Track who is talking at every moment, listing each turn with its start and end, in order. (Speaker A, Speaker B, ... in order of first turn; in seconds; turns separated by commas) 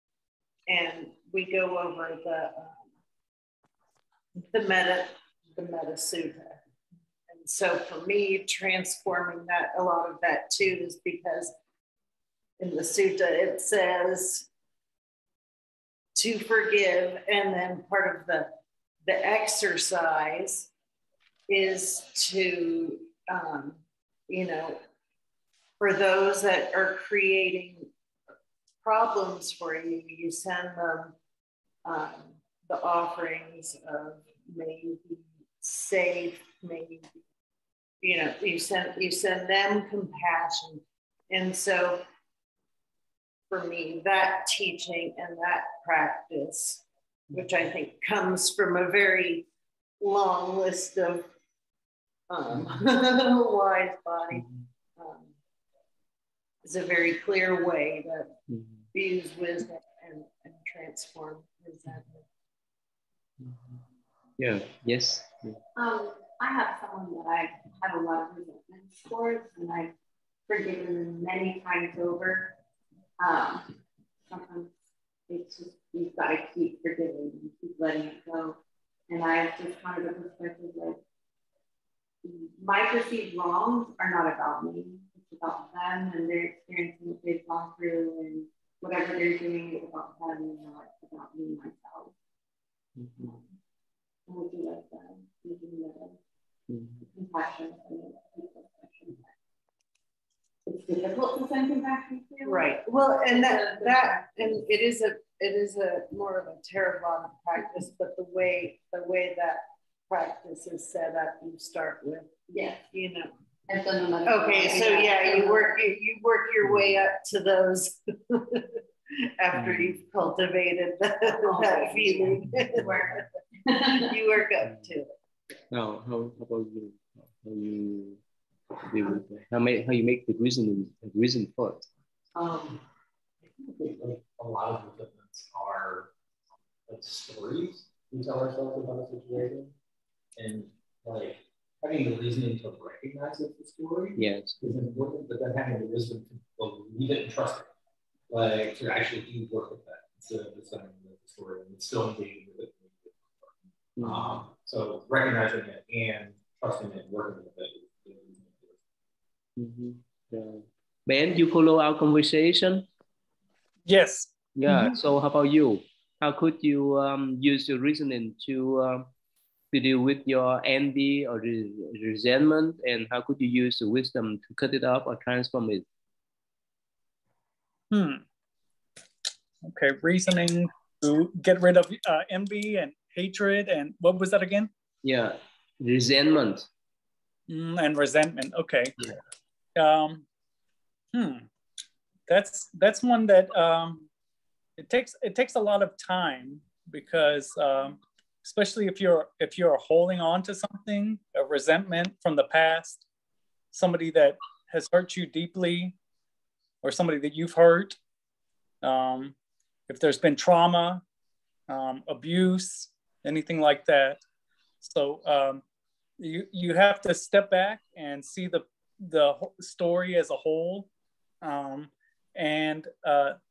Speaker A: 0.7-2.8, Speaker A: 4.4-6.6, Speaker A: 7.3-11.5, Speaker A: 12.6-14.5, Speaker A: 16.1-18.5, Speaker A: 19.0-20.7, Speaker A: 21.5-24.8, Speaker A: 25.8-27.9, Speaker A: 28.8-31.1, Speaker A: 31.8-37.2, Speaker A: 38.0-42.0, Speaker A: 43.5-49.5, Speaker A: 50.0-51.2, Speaker A: 52.3-55.3, Speaker B: 54.3-54.6, Speaker A: 56.6-58.3, Speaker B: 58.5-58.9, Speaker A: 58.9-62.2, Speaker B: 63.4-63.8, Speaker B: 64.4-65.6, Speaker C: 65.8-69.9, Speaker C: 70.5-72.5, Speaker C: 73.2-73.7, Speaker C: 74.3-74.7, Speaker C: 75.3-81.0, Speaker C: 82.2-92.1, Speaker B: 93.0-93.4, Speaker C: 94.3-96.2, Speaker B: 96.7-97.0, Speaker C: 97.1-99.3, Speaker C: 100.7-104.6, Speaker A: 102.4-112.3, Speaker C: 112.5-112.9, Speaker A: 112.9-113.3, Speaker C: 113.7-115.8, Speaker A: 114.2-118.8, Speaker B: 116.6-117.0, Speaker A: 119.4-123.1, Speaker B: 119.5-120.0, Speaker C: 121.3-124.2, Speaker A: 124.1-125.1, Speaker B: 125.7-128.2, Speaker B: 128.8-131.9, Speaker C: 132.3-132.8, Speaker D: 133.8-136.1, Speaker D: 136.9-139.7, Speaker D: 140.4-147.7, Speaker B: 144.1-144.6, Speaker D: 148.3-153.5, Speaker B: 154.0-154.4, Speaker D: 154.0-158.8, Speaker B: 159.6-162.9, Speaker E: 163.9-164.3, Speaker B: 164.6-169.1, Speaker B: 169.7-175.9, Speaker E: 177.9-178.2, Speaker E: 179.6-184.7, Speaker B: 185.0-186.7, Speaker E: 187.5-189.1, Speaker E: 189.8-190.2, Speaker E: 191.1-191.4, Speaker E: 192.3-194.1, Speaker E: 194.8-203.0, Speaker E: 203.7-205.9, Speaker E: 206.8-208.0, Speaker E: 208.8-209.3, Speaker E: 209.9-211.0, Speaker E: 211.7-214.2, Speaker E: 214.8-215.6, Speaker E: 216.2-220.9, Speaker E: 221.4-223.4